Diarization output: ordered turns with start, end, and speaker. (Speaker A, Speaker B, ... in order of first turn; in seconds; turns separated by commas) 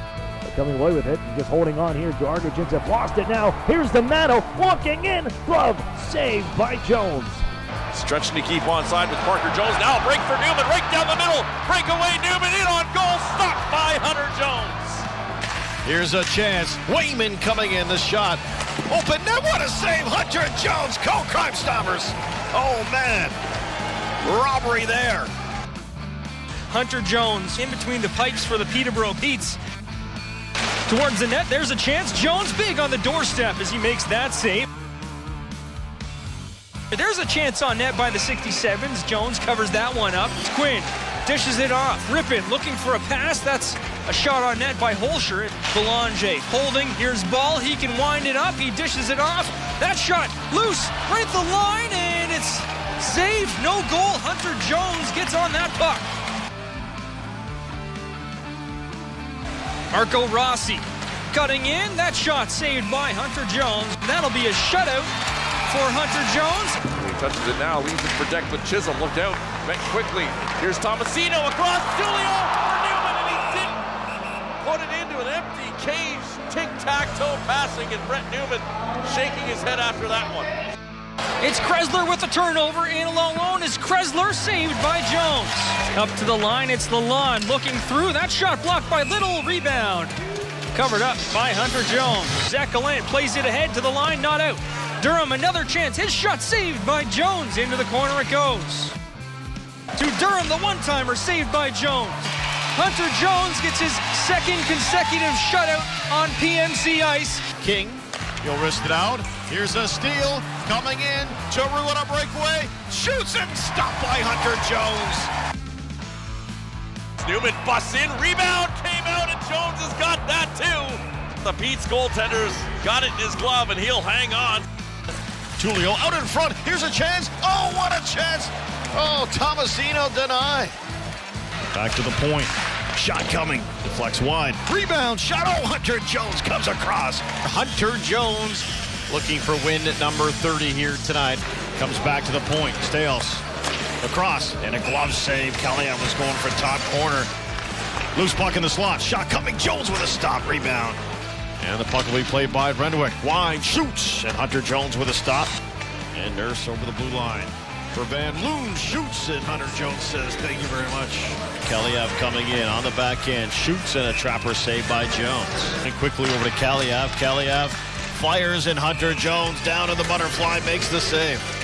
Speaker A: 0.5-7.4, Speaker B: 7.9-15.0, Speaker C: 15.8-23.4, Speaker C: 24.2-25.3, Speaker D: 26.7-29.6, Speaker D: 30.9-34.7, Speaker D: 36.9-56.0, Speaker D: 59.9-65.1, Speaker D: 65.6-66.8, Speaker B: 66.9-73.8, Speaker B: 74.6-80.5, Speaker D: 81.4-90.1, Speaker D: 90.7-98.9, Speaker D: 100.0-107.4, Speaker C: 107.6-115.3, Speaker B: 117.2-124.7, Speaker C: 125.6-130.7, Speaker C: 131.7-143.4, Speaker C: 144.0-147.3, Speaker C: 148.1-151.0, Speaker C: 151.6-155.5, Speaker C: 156.1-171.4